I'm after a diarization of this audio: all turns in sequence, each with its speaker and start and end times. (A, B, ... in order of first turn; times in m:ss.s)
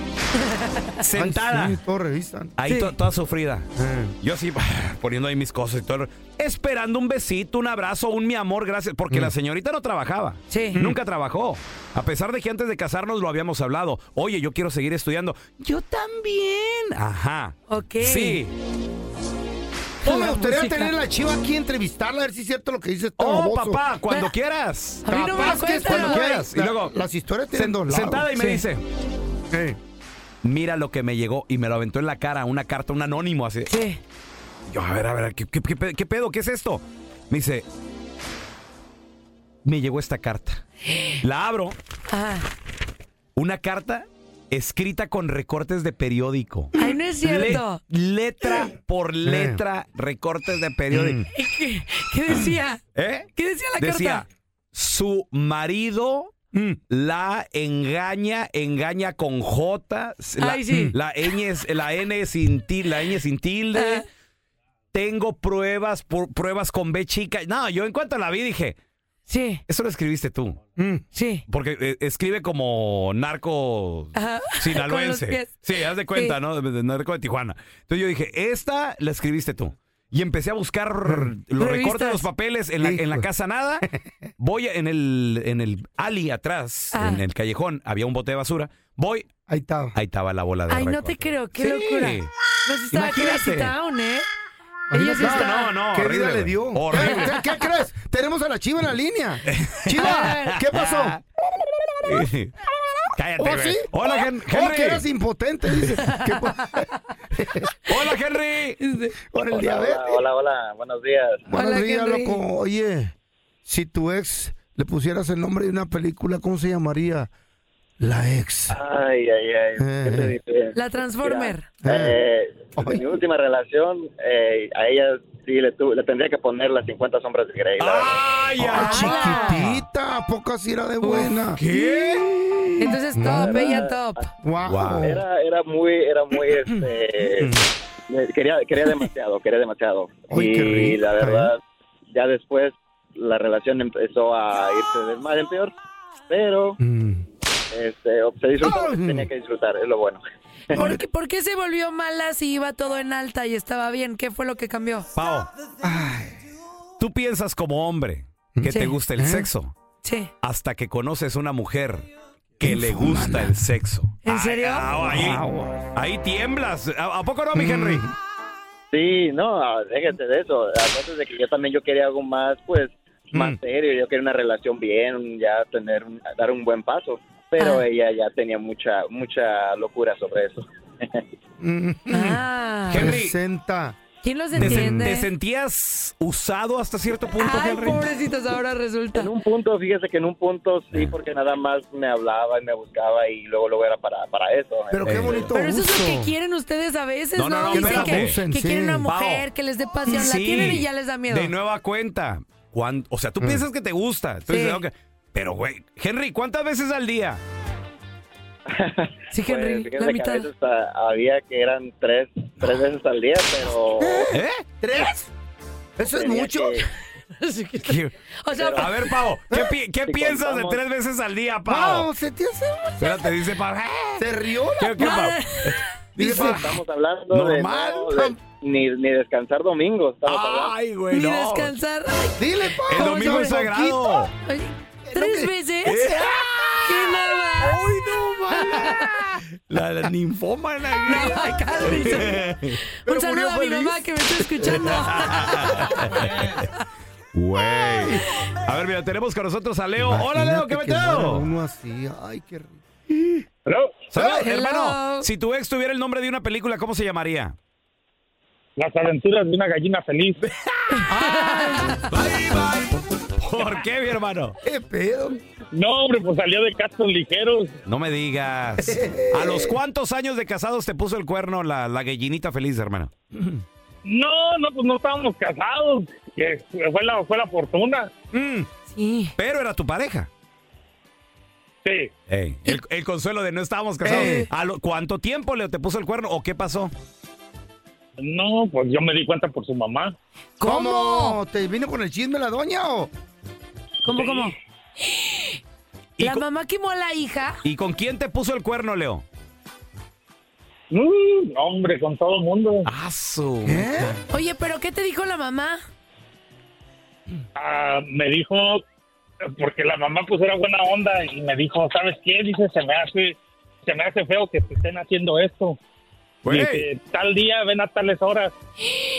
0:01.0-0:01.8 A
0:01.1-0:02.5 B
0:02.6-0:03.7 A
0:02.6-0:02.9 C
0:03.8-0:04.2 B
0:04.2-0:18.5 A
0:10.5-0:10.8 C
0:17.7-0:18.4 C
0:20.0-0:20.9 C
0:20.0-0:23.8 B
0:23.2-0:25.1 A
0:24.1-0:24.3 C
0:25.0-0:26.4 C
0:25.1-0:28.3 B
0:25.8-0:27.0 A
0:27.5-0:28.8 A
0:28.3-0:28.6 C
0:29.5-0:29.8 B
0:30.4-0:33.8 A
0:33.7-0:34.0 C
0:34.7-0:37.6 A
0:39.6-0:40.6 A
0:40.9-0:41.2 C
0:41.2-0:41.8 A
0:42.1-0:42.5 C
0:43.4-0:51.2 A
0:46.8-0:47.8 C
0:49.2-0:49.6 B
0:50.9-0:51.3 B
0:51.3-0:52.8 C
0:53.0-0:56.4 A
0:53.4-0:54.2 C
0:56.9-1:04.0 A
1:00.4-1:01.3 C
1:03.7-1:04.0 C
1:04.9-1:08.8 A
1:09.3-1:09.6 C
1:09.7-1:10.6 A
1:10.8-1:11.0 B
1:11.1-1:11.4 C
1:11.5-1:23.9 A
1:14.2-1:16.4 C
1:21.1-1:21.3 B
1:21.6-1:22.3 C
1:22.8-1:23.3 B
1:24.4-1:29.3 A
1:26.9-1:27.2 C
1:29.5-1:30.0 B
1:30.0-1:32.3 A
1:30.7-1:34.3 C
1:32.9-1:33.7 A
1:34.9-1:41.2 B
1:34.9-1:35.7 C
1:35.1-1:37.4 A
1:37.0-1:37.3 C
1:39.5-1:41.2 A
1:39.9-1:40.6 C
1:42.0-1:42.6 A
1:43.2-1:45.1 A
1:43.4-1:47.7 B
1:47.9-1:48.8 A
1:48.8-1:49.2 C
1:49.3-1:50.2 B
1:49.5-1:51.5 D
1:51.5-1:53.1 B
1:51.5-1:52.4 C
1:53.6-1:57.3 B
1:58.0-1:58.8 B
1:58.7-2:08.2 D
1:59.8-2:00.4 B
2:00.8-2:01.8 C
2:01.8-2:02.2 B
2:02.8-2:03.0 B
2:07.8-2:09.8 A
2:08.6-2:13.7 B
2:08.7-2:09.7 C
2:11.0-2:11.3 C
2:11.6-2:12.3 A
2:12.8-2:14.2 C
2:13.3-2:14.3 D
2:14.4-2:15.2 B
2:14.6-2:15.1 A
2:15.0-2:17.6 D
2:17.4-2:17.6 B
2:18.1-2:21.6 D
2:20.3-2:21.5 B
2:22.1-2:25.7 D
2:26.3-2:26.8 D
2:26.8-2:27.3 B
2:27.7-2:30.8 D
2:28.6-2:29.3 B
2:30.7-2:31.0 B
2:30.7-2:35.1 C
2:35.2-2:35.5 A
2:35.8-2:36.4 B
2:37.0-2:39.8 A
2:38.6-2:39.5 B
2:38.7-2:38.9 C
2:40.0-2:40.3 C
2:40.4-2:48.0 A
2:42.6-2:43.6 B
2:44.2-2:44.9 C
2:45.0-2:45.9 B
2:47.6-2:48.2 B
2:48.9-3:01.2 D
2:53.3-2:53.6 B
2:57.6-2:57.8 C
3:01.6-3:04.0 B
3:02.1-3:03.1 C
3:02.9-3:03.4 A
3:04.2-3:05.3 C
3:04.6-3:05.1 B
3:04.6-3:08.0 A
3:07.4-3:09.3 C
3:09.1-3:15.5 D
3:14.9-3:16.3 B
3:15.0-3:15.5 A
3:15.5-3:21.5 C
3:17.4-3:18.4 A
3:17.7-3:19.1 B
3:19.1-3:19.5 A
3:20.1-3:27.4 A
3:24.5-3:24.8 C
3:28.7-3:34.3 D
3:29.3-3:30.5 C
3:34.0-3:35.3 B
3:34.3-3:34.6 A
3:36.0-3:36.8 B
3:36.1-3:36.8 D
3:37.4-3:38.9 C
3:37.8-3:38.1 A
3:38.6-3:38.9 D
3:38.8-3:42.1 A
3:39.5-3:39.8 B
3:40.1-3:40.8 D
3:41.7-3:43.2 B
3:43.0-3:44.3 A
3:44.2-3:45.2 B
3:44.8-3:46.7 A
3:45.0-3:45.9 C
3:46.2-3:46.8 B
3:46.2-3:50.8 D
3:47.3-3:48.3 A
3:48.1-3:48.4 B
3:50.2-3:51.8 A
3:51.1-3:53.7 C
3:52.4-3:54.3 B
3:52.9-3:54.3 A
3:54.4-3:56.1 C
3:55.0-3:57.1 B
3:55.8-3:56.7 A
3:56.8-3:57.8 C
3:57.7-3:58.7 A
3:58.0-3:59.0 B
3:58.6-3:59.1 C
3:59.7-4:02.8 A
4:01.0-4:06.0 C
4:01.9-4:02.2 B
4:03.1-4:04.0 B
4:04.6-4:06.3 B
4:04.6-4:06.6 A
4:07.3-4:11.5 A
4:07.9-4:08.2 B
4:10.0-4:13.4 B
4:13.7-4:14.0 E
4:14.1-4:17.6 A
4:14.2-4:14.5 B
4:14.2-4:15.3 C
4:18.8-4:20.4 E
4:21.0-4:22.1 B
4:21.0-4:22.1 C
4:22.1-4:24.6 A
4:24.6-4:25.4 B
4:25.7-4:27.7 E
4:27.9-4:33.1 A
4:28.8-4:29.8 B
4:33.3-4:33.6 B
4:34.1-4:38.1 E
4:38.3-4:38.7 B
4:38.9-4:39.3 C
4:39.4-4:40.3 A
4:41.8-4:42.1 E
4:42.3-4:46.9 A
4:44.0-4:44.5 B
4:44.0-4:44.5 C
4:48.2-4:50.1 E
4:50.6-4:51.4 C
4:50.6-4:53.1 B
4:54.0-4:55.6 C
4:56.2-4:56.4 A
4:56.2-4:57.6 C
4:57.6-4:59.2 A
5:00.9-5:02.9 E
5:02.8-5:04.2 A
5:03.6-5:04.2 B
5:04.3-5:05.8 C
5:07.6-5:08.8 E
5:09.6-5:15.8 E
5:16.4-5:16.9 A
5:16.5-5:18.5 E